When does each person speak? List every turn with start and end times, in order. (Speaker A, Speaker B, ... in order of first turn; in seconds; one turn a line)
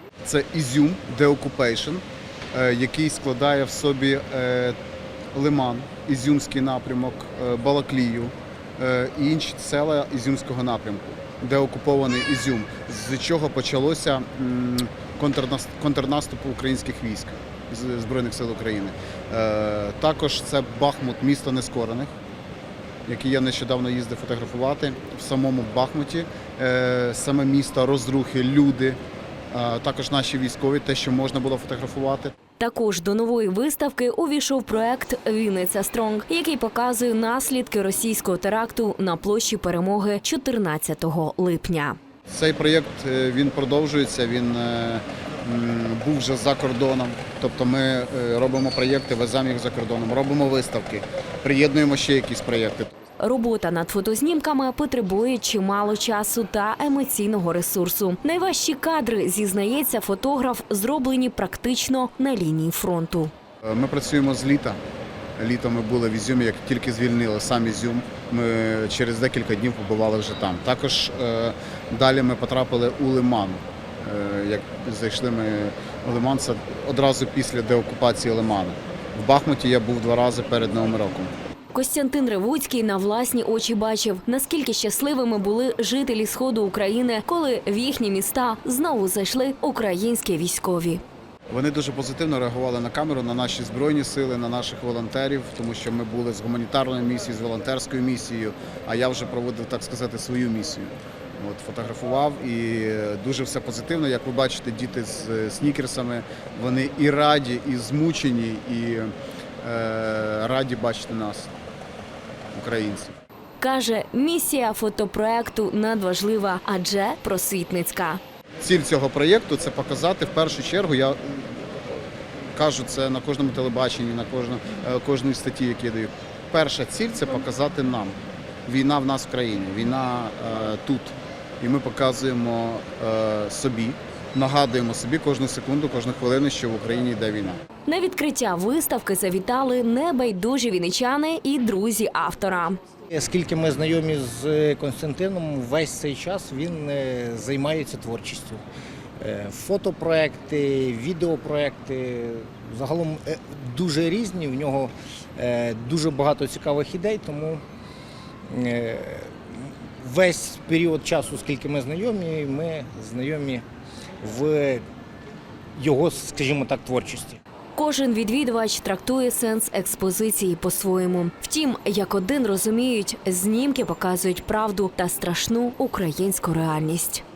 Speaker A: 0.2-4.8
Speaker A: 5.3-22.1
Speaker A: 23.1-29.0
Speaker A: 29.5-32.3
Speaker B: 32.6-42.0
Speaker A: 42.3-52.9
Speaker B: 53.2-63.3
Speaker A: 63.7-64.8
Speaker A: 65.4-81.3
Speaker B: 81.7-91.0
Speaker A: 91.5-111.5
Speaker A: 112.5-113.2
Speaker B: 113.6-118.2
Speaker A: 118.6-121.2
Speaker A: 122.5-128.2
Speaker A: 128.7-137.6
Speaker B: 137.9-142.8
Speaker C: 143.1-148.6
Speaker C: 149.2-157.6
Speaker C: 158.5-163.7
Speaker C: 164.2-164.8
Speaker C: 165.8-167.4
Speaker B: 167.8-177.2